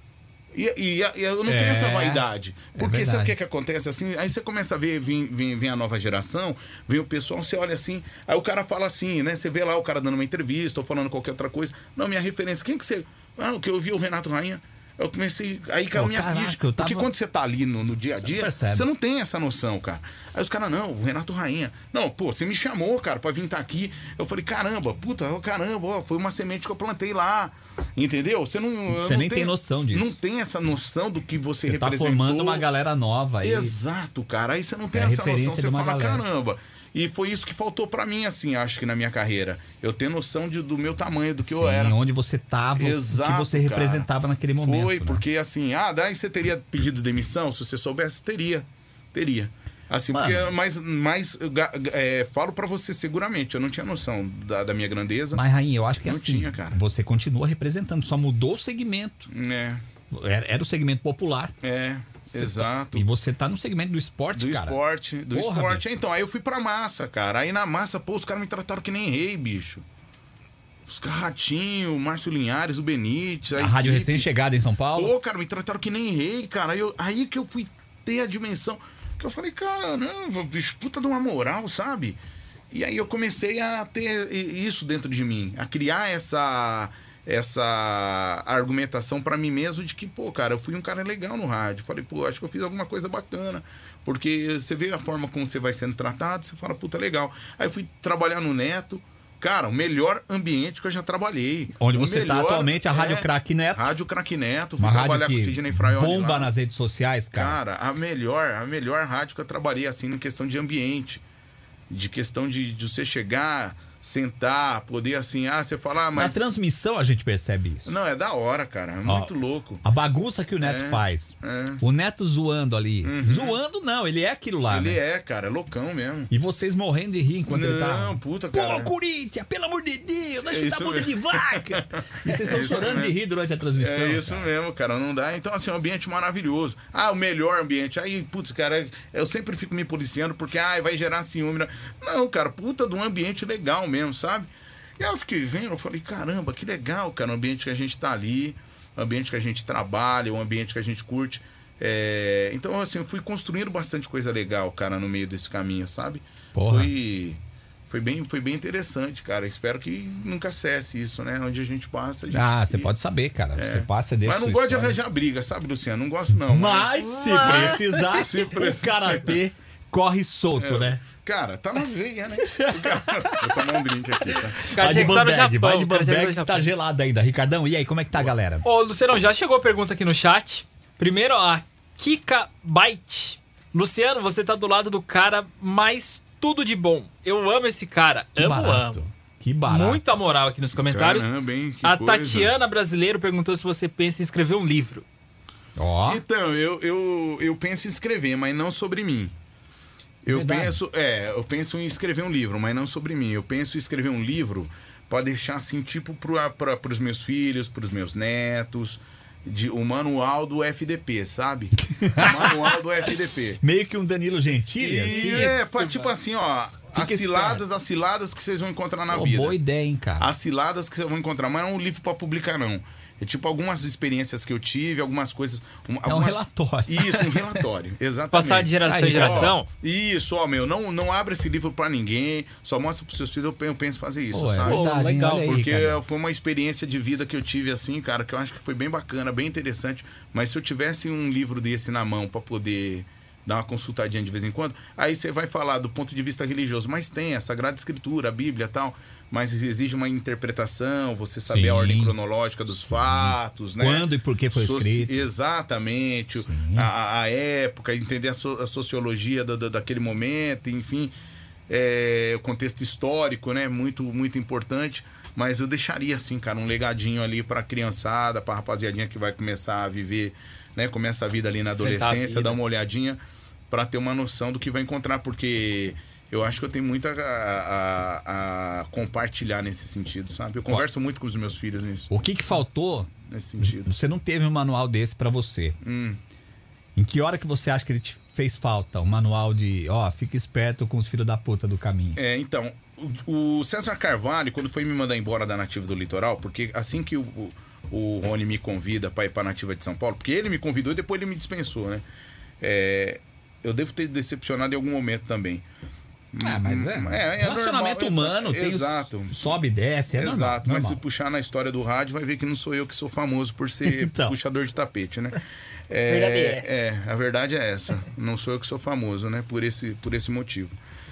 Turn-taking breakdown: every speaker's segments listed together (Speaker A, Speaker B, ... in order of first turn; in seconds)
Speaker A: 0.5-32.6, 33.4-42.0, 42.8-55.4, 56.0-56.8, 59.3-59.8, 61.6-63.1, 64.3-69.8, 70.9-74.3, 74.9-82.2, 82.7-106.5, 107.3-111.2, 111.9-116.4, 117.8-119.8, 120.6-121.8, 123.0-123.6, 124.7-126.3, 127.5-128.9, 130.4-133.2, 133.8-162.9, 163.5-169.4, 170.6-175.1, 190.8-192.5, 196.0-199.3, 200.2-213.6, 214.8-219.6, 220.2-261.1, 261.7-282.1, 283.3-283.9, 285.8-286.2, 292.1-302.0, 302.6-305.6, 306.3-309.3, 310.1-320.8
Speaker B: 1.4-2.2, 2.8-3.3, 15.9-17.1, 18.2-18.9, 28.9-30.2, 31.6-33.8, 34.9-36.2, 41.4-45.2, 50.1-50.5, 55.3-59.3, 60.1-61.5, 62.3-64.8, 65.3-65.8, 73.5-75.1, 101.8-103.9, 104.8-107.6, 116.1-117.9, 119.0-119.3, 119.8-125.0, 126.3-134.5, 156.5-156.9, 162.3-165.0, 166.4-171.0, 172.4-173.7, 174.3-178.7, 188.3-190.0, 195.8-196.2, 200.3-200.8, 211.9-212.8, 213.6-215.6, 216.9-217.6, 219.1-220.3, 226.1-227.6, 228.8-229.5, 234.3-236.0, 251.4-252.1, 252.9-255.3, 256.4-256.9, 282.1-285.8, 286.9-292.2, 306.4-311.0, 313.8-314.4
Speaker C: 167.2-167.8, 174.7-176.7, 178.6-189.0, 189.7-191.3, 191.8-195.1, 215.1-216.0, 228.3-229.7, 234.6-235.5, 271.8-272.6, 316.1-316.7